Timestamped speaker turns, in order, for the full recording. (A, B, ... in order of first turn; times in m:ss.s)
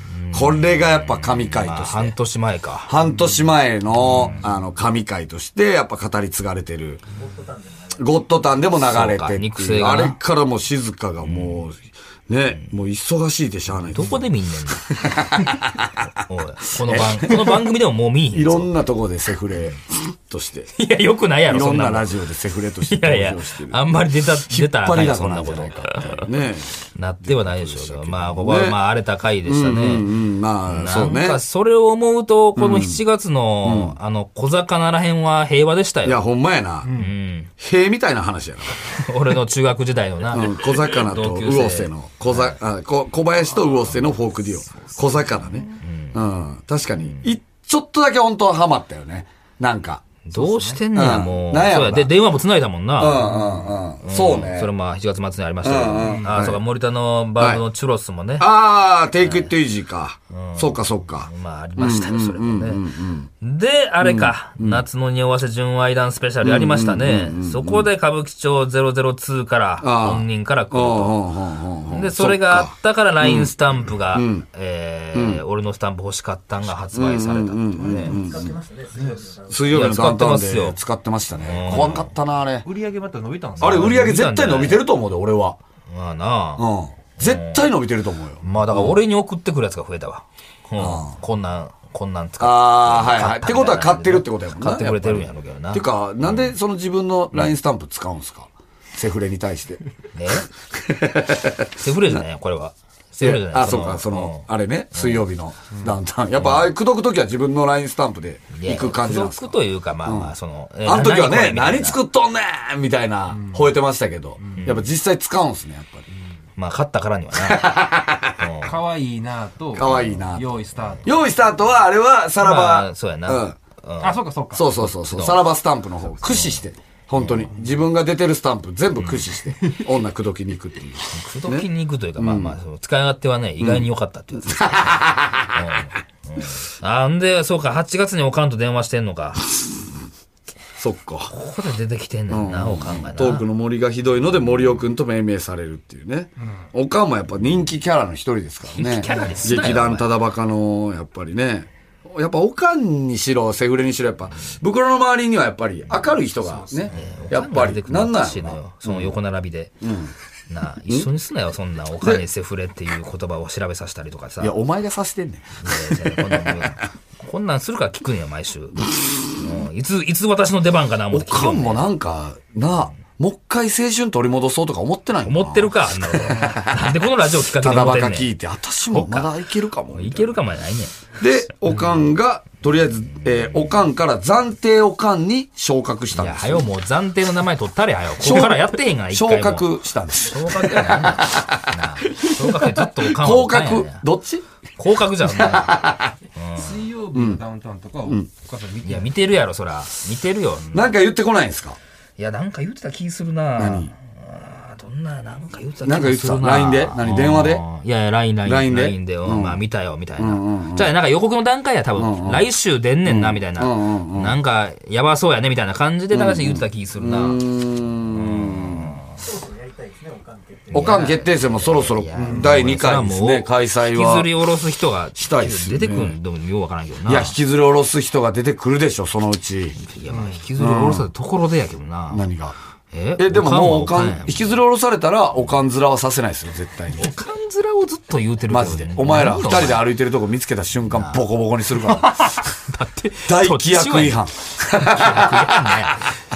0:00.1-0:02.9 A
0:00.3-0:02.1 B
0:02.9-0:07.0 B
0:04.0-0:04.5 A
0:07.2-0:08.1 C
0:08.0-0:16.0 B
0:08.8-0:10.2 A
0:11.2-0:11.6 A
0:13.9-0:14.9 A
0:16.2-0:18.7 A
0:16.8-0:17.6 B
0:18.3-0:20.7 B
0:20.8-0:22.1 A
0:21.5-0:23.8 B
0:22.9-0:26.3 A
0:24.5-0:28.8 B
0:27.0-0:30.1 A
0:29.4-0:31.4 B
0:30.7-0:36.2 A
0:32.6-0:33.0 B
0:33.6-0:34.0 B
0:36.0-0:37.0 B
0:36.8-0:37.1 C
0:36.9-0:37.5 A
0:37.6-0:39.0 B
0:39.0-0:42.6 A
0:40.3-0:50.0 B
0:45.8-0:46.2 A
0:50.2-0:58.5 A
0:50.4-0:50.8 C
0:50.9-0:52.1 B
0:53.0-0:54.7 B
0:55.6-0:56.6 B
0:58.4-1:03.3 B
0:59.2-0:59.5 A
1:00.3-1:02.8 A
1:03.4-1:11.2 A
1:04.0-1:04.8 B
1:06.4-1:07.9 B
1:09.8-1:13.5 B
1:11.9-1:18.2 A
1:14.1-1:14.4 B
1:15.1-1:15.4 B
1:16.9-1:18.5 B
1:17.9-1:20.2 C
1:19.5-1:22.7 B
1:19.7-1:20.8 A
1:21.4-1:22.1 A
1:21.7-1:22.0 C
1:22.6-1:24.1 C
1:23.6-1:24.8 A
1:23.6-1:25.6 B
1:25.9-1:26.6 A
1:26.6-1:29.0 B
1:27.2-1:27.7 A
1:28.4-1:36.5 A
1:30.8-1:31.2 B
1:32.4-1:39.8 B
1:40.1-1:40.5 A
1:40.7-1:41.9 B
1:41.8-1:45.2 A
1:43.2-1:50.3 B
1:46.4-1:46.7 A
1:48.5-1:52.0 A
1:50.8-1:56.0 B
1:53.3-1:53.7 C
1:54.6-1:54.8 A
1:56.6-1:57.7 A
1:57.3-1:58.4 B
1:58.4-1:58.8 A
1:58.6-2:01.2 C
1:59.7-2:00.5 B
2:01.0-2:03.6 B
2:02.4-2:04.2 A
2:04.0-2:04.7 C
2:04.5-2:11.7 B
2:04.9-2:05.4 A
2:06.2-2:06.6 A
2:07.2-2:07.5 A
2:09.0-2:09.3 A
2:11.1-2:19.4 A
2:12.2-2:12.6 B
2:13.6-2:13.8 B
2:14.4-2:15.5 B
2:20.8-2:21.3 B
2:21.3-2:23.5 A
2:22.3-2:39.2 B
2:28.8-2:30.2 A
2:36.3-2:37.1 C
2:36.9-2:39.7 A
2:39.8-2:40.1 B
2:40.5-2:44.6 A
2:44.4-2:46.7 B
2:45.6-2:51.9 A
2:51.1-2:56.9 B
2:55.2-2:58.3 A
2:57.6-3:00.4 B
2:58.9-2:59.3 A
2:59.9-3:01.0 A
3:01.2-3:06.7 B
3:01.7-3:02.0 A
3:03.2-3:03.7 A
3:06.1-3:09.7 A
3:08.2-3:14.4 B
3:10.2-3:14.0 A
3:14.8-3:16.8 A
3:15.2-3:16.1 B
3:16.5-3:19.1 C
3:17.1-3:17.4 B
3:18.8-3:20.9 A
3:20.7-3:21.8 B
3:22.2-3:37.4 A
3:23.6-3:23.9 B
3:25.8-3:27.6 B
3:28.4-3:29.6 B
3:30.2-3:30.9 B
3:32.0-3:32.4 B
3:33.0-3:34.4 B
3:36.1-3:39.0 B
3:38.1-3:39.1 A
3:39.2-3:41.1 C
3:40.7-3:47.3 A
3:40.7-3:44.3 B
3:42.2-3:42.5 C
3:45.2-3:46.2 B
3:47.0-3:49.8 B
3:49.8-3:52.2 A
3:50.1-3:50.4 C
3:50.6-3:51.1 B
3:52.1-3:52.6 B
3:52.9-3:54.6 A
3:53.2-3:57.1 B
3:57.0-3:59.9 A
3:58.5-4:02.4 B
4:00.9-4:01.2 A
4:01.8-4:06.0 A
4:03.2-4:05.9 B